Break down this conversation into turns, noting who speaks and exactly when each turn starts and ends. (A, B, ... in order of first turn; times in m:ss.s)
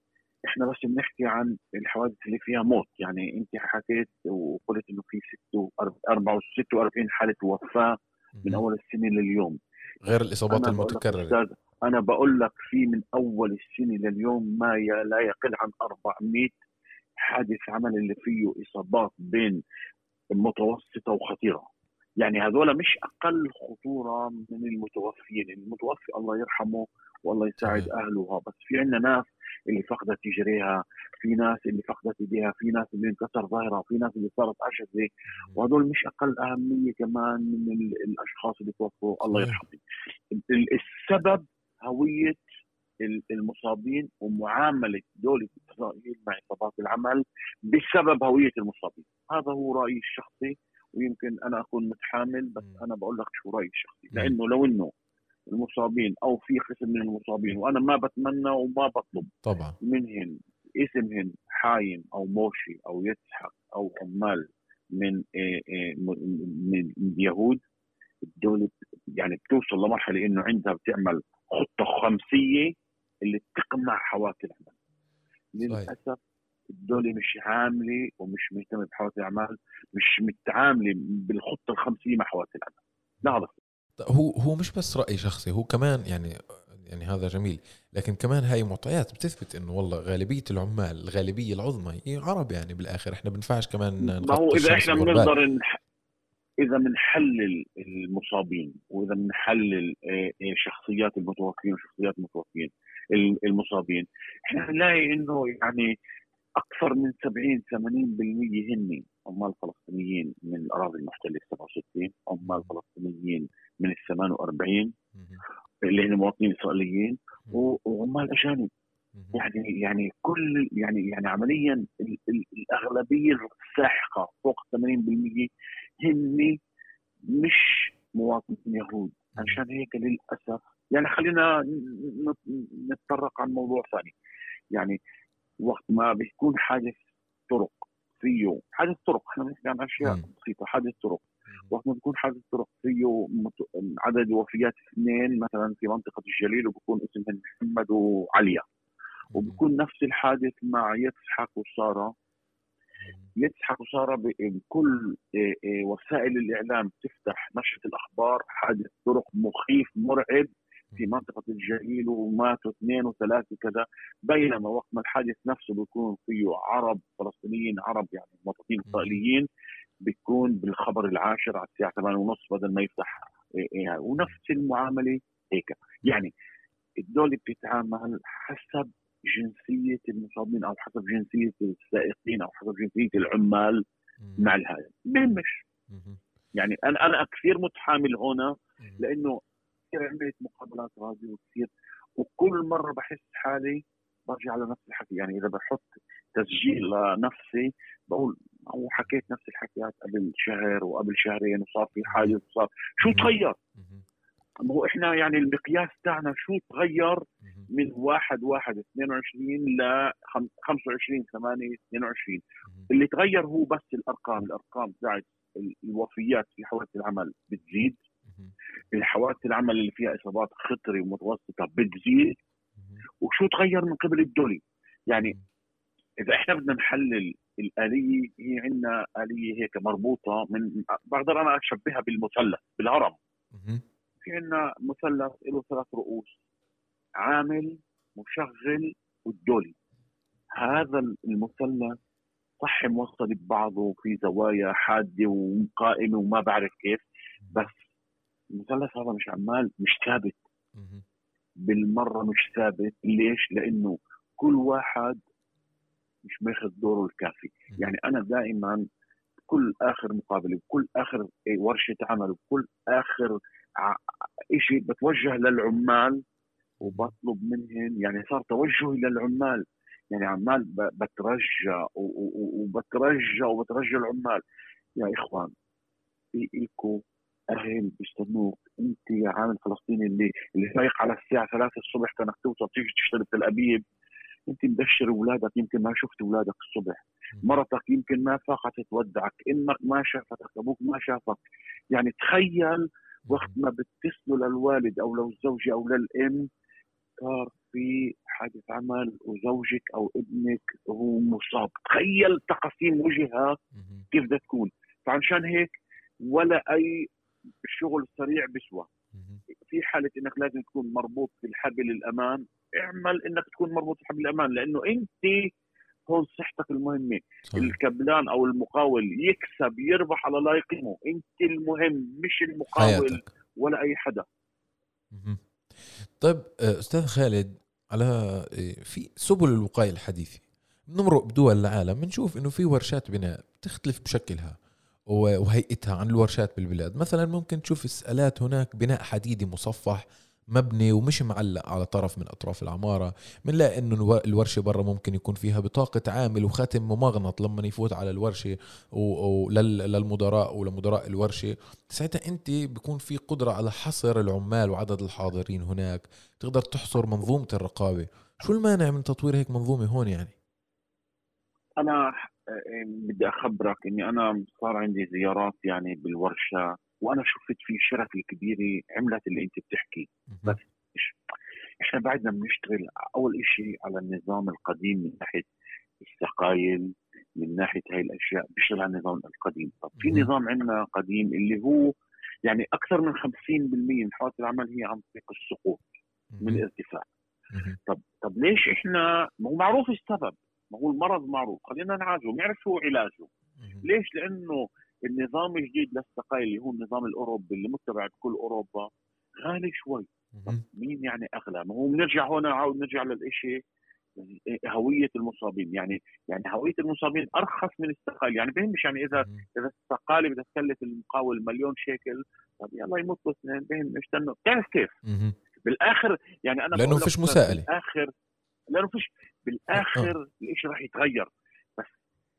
0:00.5-0:09.6 A
0:08.4-0:08.6 B
0:10.0-0:11.4 B
0:10.5-0:16.6 A
0:17.2-0:19.6 A
0:20.3-0:21.7 A
0:22.2-0:39.8 A
0:27.6-0:27.9 B
0:39.3-0:39.6 B
0:40.3-0:42.4 A
0:43.0-0:54.9 A
0:55.5-1:07.6 A
0:59.4-0:59.8 B
1:08.3-1:12.7 A
1:13.2-1:14.7 A
1:15.5-1:16.2 A
1:15.6-1:15.9 B
1:16.8-1:23.6 A
1:24.0-1:35.4 B
1:34.0-1:35.8 A
1:36.6-1:45.9 A
1:46.6-1:54.9 A
1:52.4-1:52.7 B
1:55.2-1:55.4 B
1:55.9-1:58.7 A
1:59.3-2:05.5 A
2:06.0-2:06.6 A
2:07.4-2:14.1 A
2:14.7-2:15.0 A
2:15.6-2:28.6 A
2:29.3-2:29.6 B
2:29.3-2:32.1 A
2:33.0-2:33.3 B
2:33.4-2:49.5 A
2:48.9-2:49.2 B
2:50.0-2:56.3 A
2:57.0-3:03.8 A
3:04.4-3:05.6 A
3:05.9-3:06.2 B
3:06.6-3:09.4 A
3:09.9-3:23.6 A
3:22.1-3:22.4 B
3:23.0-3:24.0 B
3:24.6-3:38.0 A
3:38.9-3:42.4 A
3:43.2-3:45.4 A
3:46.2-3:53.2 A
3:53.5-3:53.8 B
3:54.2-3:56.3 A
3:57.2-3:59.7 A
4:00.5-4:02.0 A
4:00.6-4:00.9 B
4:02.6-4:07.0 A
4:08.6-4:10.4 A
4:10.8-4:11.0 B
4:11.6-4:15.2 A
4:16.2-4:18.8 A
4:19.5-4:24.0 A
4:24.5-4:26.2 A
4:26.8-4:34.4 A
4:26.8-4:27.1 B
4:35.0-4:35.5 A
4:36.4-4:43.8 A
4:44.5-4:51.4 A
4:51.9-4:56.5 A
4:57.2-5:03.6 A
5:03.8-5:04.0 B
5:04.1-5:05.7 A
5:06.2-5:07.1 A
5:07.6-5:08.9 A
5:09.1-5:09.4 B
5:09.7-5:15.5 A
5:16.1-5:24.2 A
5:22.7-5:23.2 B
5:25.1-5:25.4 B
5:26.0-5:34.6 B
5:35.1-5:40.0 B
5:40.5-6:00.3 B
6:01.8-6:11.1 A
6:10.3-6:10.6 B
6:11.8-6:15.5 A
6:16.0-6:21.9 A
6:20.0-6:20.3 B
6:22.5-6:25.8 A
6:26.4-6:26.6 B
6:26.4-6:27.1 A
6:27.5-6:27.8 B
6:27.9-6:33.3 A
6:33.6-6:33.8 B
6:33.8-6:38.9 A
6:39.4-6:43.6 A
6:40.4-6:40.6 B
6:44.2-6:54.9 A
6:49.1-6:49.4 B
6:55.1-6:55.4 B
6:55.7-6:58.1 A
6:56.8-6:57.7 B
6:58.7-7:01.9 A
6:59.8-7:00.1 B